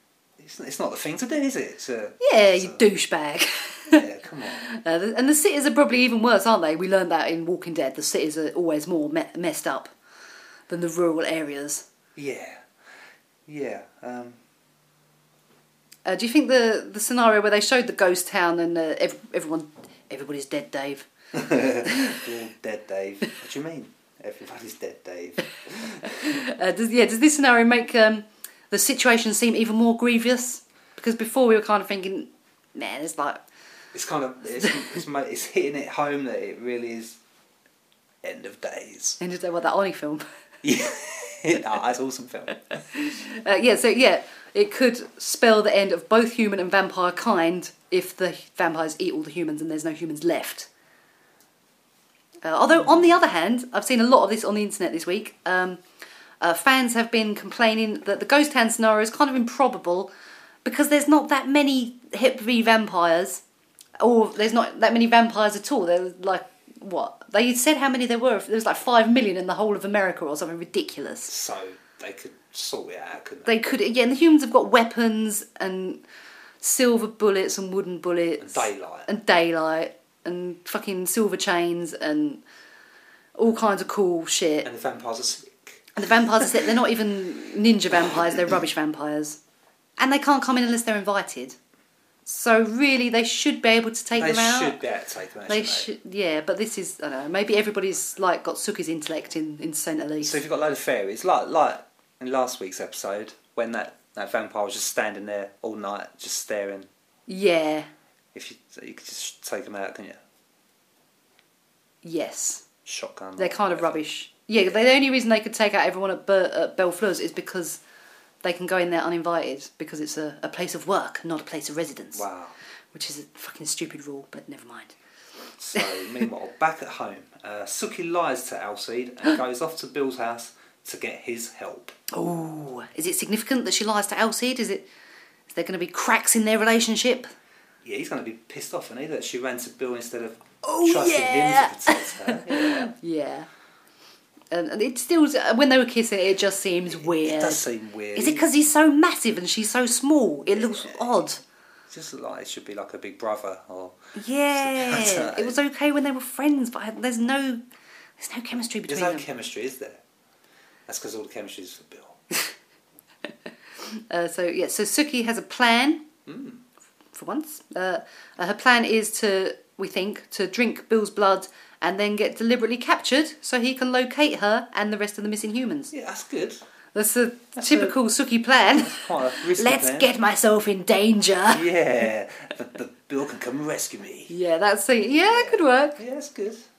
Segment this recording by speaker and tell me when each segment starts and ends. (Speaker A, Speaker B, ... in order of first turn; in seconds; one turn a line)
Speaker A: 0.4-2.8
Speaker B: 2.2-4.0
Speaker A: 3.9-4.7
Speaker B: 4.6-9.9
Speaker B: 10.7-11.8
Speaker A: 12.2-12.6
Speaker A: 13.5-14.4
Speaker B: 16.0-21.1
Speaker A: 21.3-26.4
Speaker B: 21.8-22.2
Speaker B: 26.1-33.4
Speaker A: 33.9-37.2
Speaker A: 38.2-39.2
Speaker B: 39.2-40.2
Speaker A: 40.6-42.6
Speaker B: 42.9-50.7
Speaker B: 52.4-55.8
Speaker A: 52.9-53.1
Speaker B: 56.4-60.1
Speaker B: 60.6-63.4
Speaker B: 64.0-71.3
Speaker A: 71.3-73.5
Speaker B: 73.5-76.0
Speaker B: 76.6-82.4
Speaker A: 78.4-79.1
Speaker B: 83.4-84.7
Speaker A: 84.6-85.9
Speaker B: 86.0-89.4
Speaker B: 90.0-91.5
Speaker B: 92.2-94.8
Speaker A: 94.1-95.9
Speaker B: 95.5-100.4
Speaker A: 100.2-106.9
Speaker B: 107.3-107.9
Speaker A: 108.3-110.2
Speaker B: 112.0-112.6
Speaker A: 112.9-114.0
Speaker B: 113.4-117.8
Speaker B: 118.4-122.2
Speaker A: 122.1-122.5
Speaker B: 122.9-124.9
Speaker A: 125.6-131.9
Speaker B: 125.7-126.2
Speaker B: 132.1-134.9
Speaker B: 135.5-137.3
Speaker A: 137.8-142.9
Speaker B: 140.6-143.5
Speaker B: 144.5-147.6
Speaker A: 146.9-148.4
Speaker B: 148.1-151.4
Speaker A: 150.5-151.1
Speaker A: 151.9-154.0
Speaker B: 154.2-157.6
Speaker A: 154.5-155.6
Speaker B: 158.2-159.2
Speaker A: 158.9-160.0
Speaker A: 160.9-162.2
Speaker B: 163.8-166.1
Speaker A: 166.2-166.6
Speaker B: 167.1-175.9
Speaker A: 175.9-176.6
Speaker B: 176.9-181.6
Speaker A: 177.6-177.9
Speaker A: 178.8-180.1
Speaker A: 181.5-184.3
Speaker B: 184.3-186.0
Speaker A: 185.1-186.6